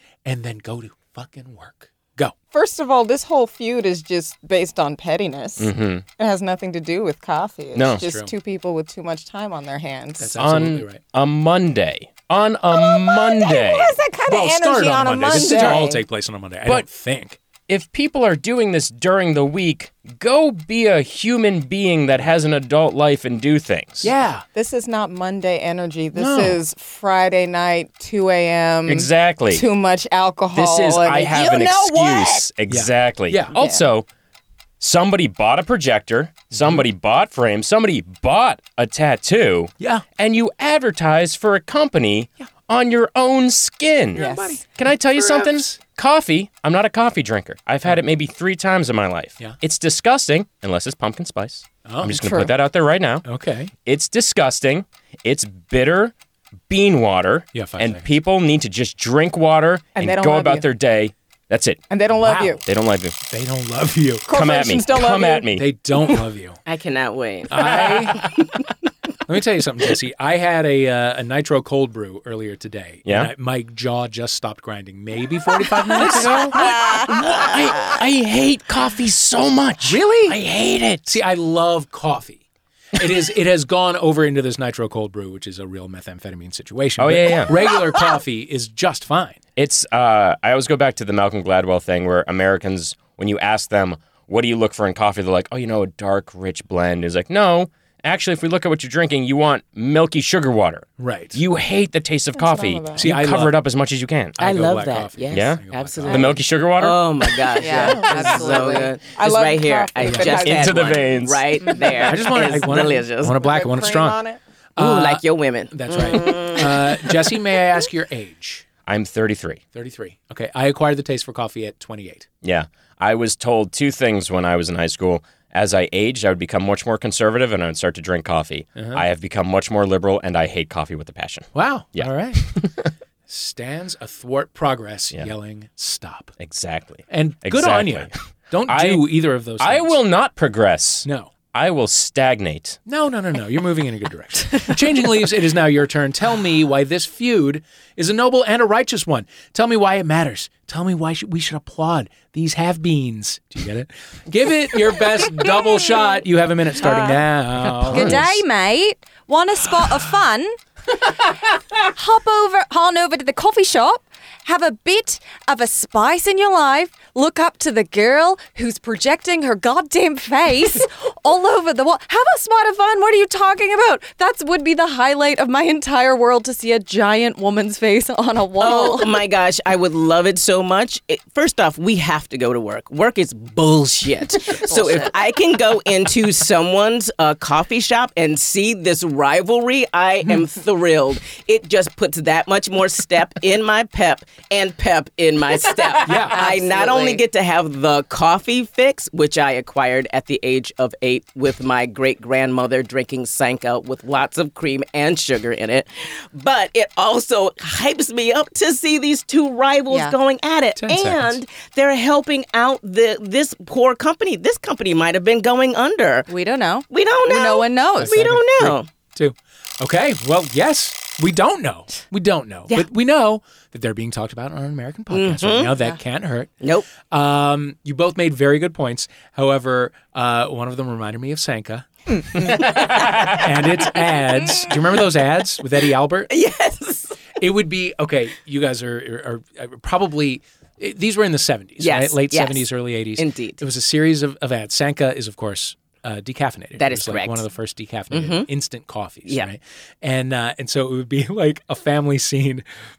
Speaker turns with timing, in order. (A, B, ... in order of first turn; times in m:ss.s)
0:00.2-0:02.3 A
0:02.5-0:10.4 B
0:05.6-0:06.0 C
0:07.7-0:08.1 C
0:08.0-0:08.3 A
0:10.2-0:11.0 A
0:10.4-0:14.0 C
0:12.7-0:16.0 B
0:14.3-0:17.4 A
0:15.4-0:15.8 C
0:17.7-0:24.1 C
0:24.0-0:24.5 A
0:24.6-0:32.4 B
0:26.2-0:26.6 A
0:28.9-0:29.7 C
0:30.5-0:34.1 C
0:32.7-0:33.6 A
0:33.6-0:33.8 B
0:34.8-0:53.3 C
0:36.5-0:36.9 A
0:39.8-0:40.0 A
0:44.2-0:45.8 A
0:44.2-0:44.6 B
0:51.8-0:52.6 A
0:53.2-0:53.7 A
0:53.8-0:56.1 C
0:56.7-1:01.8 C
0:57.5-0:58.1 A
1:00.0-1:00.7 B
1:01.9-1:02.6 B
1:02.2-1:02.6 A
1:02.6-1:03.2 C
1:03.3-1:04.3 A
1:04.3-1:05.5 B
1:04.3-1:05.7 C
1:05.5-1:06.6 A
1:06.7-1:08.5 D
1:07.5-1:08.3 A
1:09.3-1:16.8 A
1:13.0-1:13.3 C
1:16.0-1:21.2 C
1:19.8-1:20.4 A
1:21.1-1:22.4 A
1:23.0-1:29.4 A
1:27.0-1:27.6 C
1:29.6-1:44.4 C
1:41.0-1:41.4 A
1:42.4-1:43.1 B
1:43.0-1:43.6 A
1:44.4-1:46.4 A
1:44.4-1:53.4 D
1:45.3-1:47.0 C
1:47.6-1:49.0 E
1:47.7-1:51.0 B
1:50.0-1:50.4 A
1:50.3-1:51.5 C
1:52.0-1:54.2 A
1:53.4-1:54.4 B
1:54.8-1:58.6 A
1:54.8-1:57.3 D
1:58.9-1:59.6 C
1:59.7-2:02.3 A
2:02.4-2:12.9 C
2:08.8-2:09.0 A
2:11.5-2:12.5 A
2:13.3-2:16.3 A
2:16.4-2:18.2 C
2:17.1-2:20.0 A
2:18.7-2:22.8 C
2:21.0-2:21.3 A
2:22.9-2:38.4 A
2:37.8-2:40.6 E
2:37.9-2:38.2 C
2:41.8-2:59.2 E
2:58.6-3:36.3 D
3:16.0-3:16.4 A
3:16.2-3:17.2 E
3:29.9-3:30.2 E
3:30.8-3:31.4 A
3:36.3-3:38.2 E
3:36.9-3:38.9 D
3:38.0-3:52.6 A
3:45.1-3:45.7 D
3:46.6-3:46.9 D
3:53.2-3:56.3 A
3:56.3-3:57.2 D
3:57.4-4:12.6 A
4:01.8-4:03.6 D
4:06.8-4:07.4 D
4:08.1-4:08.5 D